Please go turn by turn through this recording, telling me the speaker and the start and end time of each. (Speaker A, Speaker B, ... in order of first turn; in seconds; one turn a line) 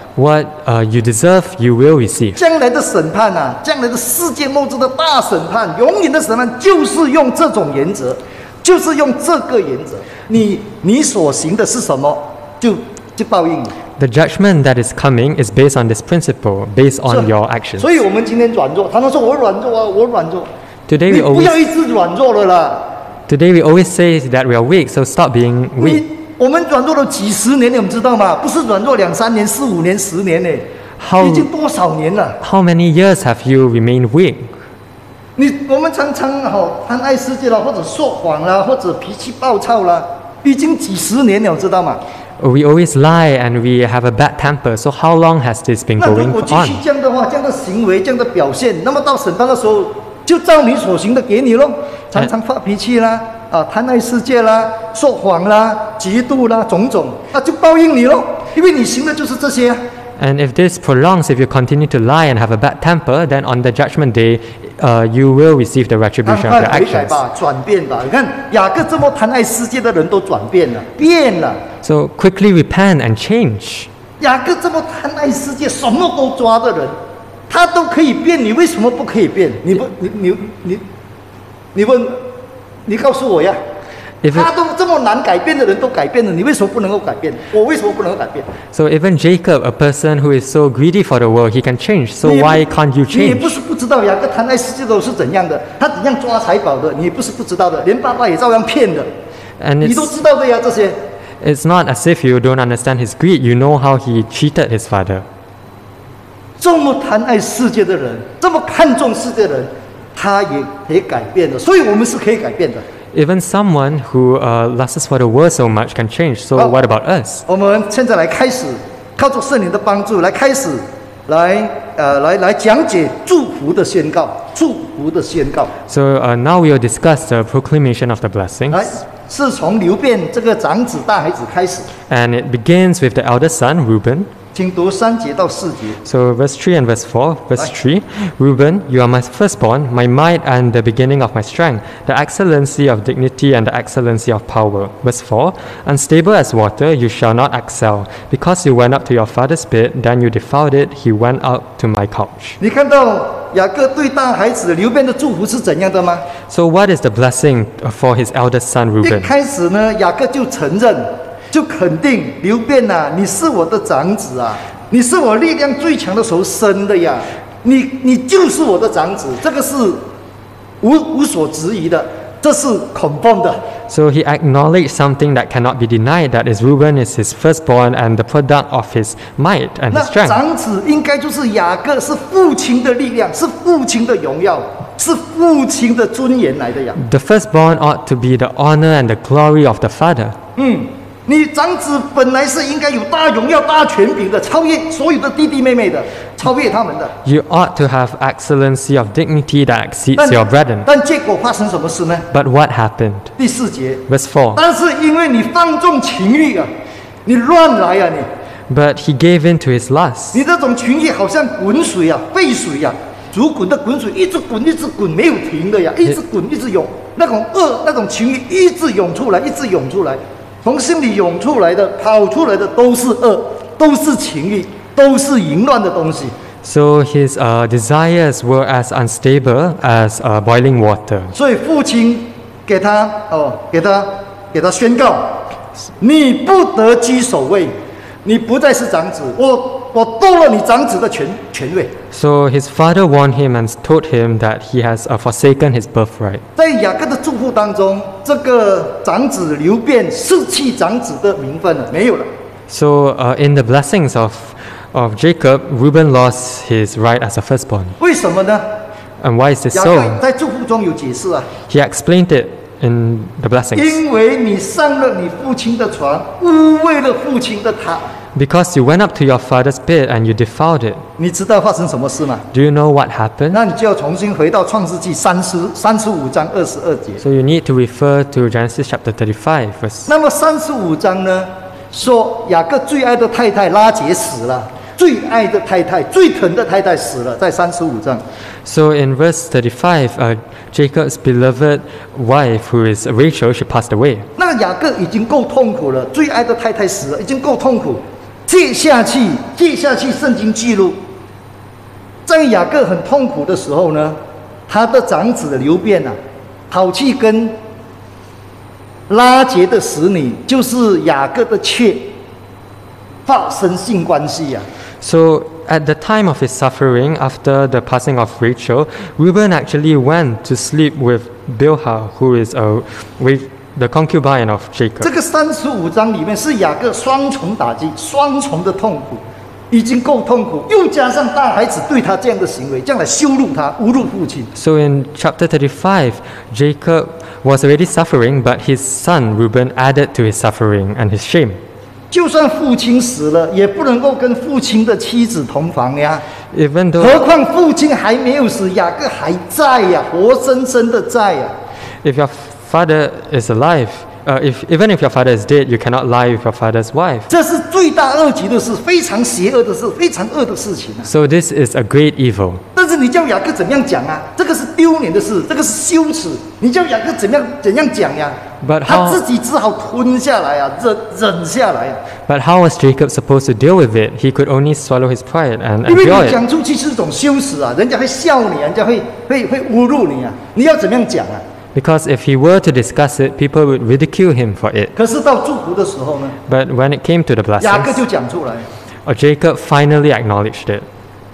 Speaker A: 0.2-2.4
Speaker B: 2.4-13.7
Speaker A: 14.0-17.9
Speaker B: 17.1-20.5
Speaker A: 20.9-21.6
Speaker B: 21.1-22.9
Speaker A: 23.3-26.0
Speaker B: 25.8-30.7
Speaker A: 31.0-31.5
Speaker B: 31.2-32.4
Speaker A: 32.4-34.5
Speaker B: 35.4-42.0
Speaker A: 42.4-46.8
Speaker B: 46.0-59.8
Speaker A: 60.2-67.2
Speaker B: 66.2-71.6
Speaker A: 71.8-73.9
Speaker B: 74.2-77.0
Speaker B: 77.5-80.8
Speaker B: 81.7-82.2
Speaker B: 82.9-83.6
Speaker A: 84.2-84.5
Speaker B: 84.3-88.5
Speaker A: 88.7-93.6
Speaker B: 92.2-99.1
Speaker A: 99.6-100.2
Speaker B: 99.8-101.0
Speaker A: 101.4-105.2
Speaker B: 106.6-112.8
Speaker A: 113.1-117.5
Speaker B: 117.5-125.7
Speaker A: 125.9-128.9
Speaker B: 128.7-131.9
Speaker A: 132.1-134.3
Speaker B: 134.6-136.0
Speaker A: 136.0-152.6
Speaker B: 152.6-156.2
Speaker A: 156.5-159.3
Speaker B: 159.0-170.0
Speaker B: 170.8-173.6
Speaker A: 173.9-180.4
Speaker B: 179.9-187.0
Speaker A: 187.0-190.4
Speaker B: 190.6-197.1
Speaker A: 197.2-200.9
Speaker B: 200.2-202.3
Speaker A: 202.3-203.3
Speaker B: 203.4-204.0
Speaker A: 204.1-204.6
Speaker B: 204.6-206.7
Speaker B: 207.2-208.3
Speaker A: 208.7-210.4
Speaker B: 210.3-226.3
Speaker A: 226.6-231.3
Speaker B: 231.3-235.4
Speaker B: 236.0-237.7
Speaker B: 238.2-241.9
Speaker A: 242.1-246.4
Speaker B: 246.6-252.3
Speaker A: 252.7-258.0
Speaker B: 258.0-258.6
Speaker A: 259.2-260.2
Speaker B: 259.7-261.5
Speaker A: 261.7-264.0
Speaker B: 263.8-268.1
Speaker A: 268.4-271.0
Speaker B: 271.2-272.4
Speaker A: 272.5-273.6
Speaker B: 273.5-277.2
Speaker A: 277.2-280.1
Speaker B: 280.1-288.2
Speaker A: 288.7-294.3
Speaker B: 294.4-301.0
Speaker B: 302.3-304.2
Speaker B: 304.7-306.1
Speaker B: 306.7-307.6
Speaker B: 309.1-312.1
Speaker B: 313.3-314.6
Speaker A: 315.0-325.1
Speaker B: 325.0-334.5
Speaker A: 334.6-341.6
Speaker B: 342.1-346.2
Speaker A: 346.5-347.2
Speaker B: 347.0-351.5
Speaker A: 352.0-357.3
Speaker B: 357.3-361.1
Speaker A: 361.1-362.6
Speaker B: 362.8-372.0
Speaker A: 368.6-369.2
Speaker A: 372.3-376.4
Speaker B: 375.9-381.4
Speaker A: 381.8-384.9
Speaker B: 385.0-386.4
Speaker A: 386.5-388.0
Speaker B: 387.6-388.7
Speaker A: 389.1-390.9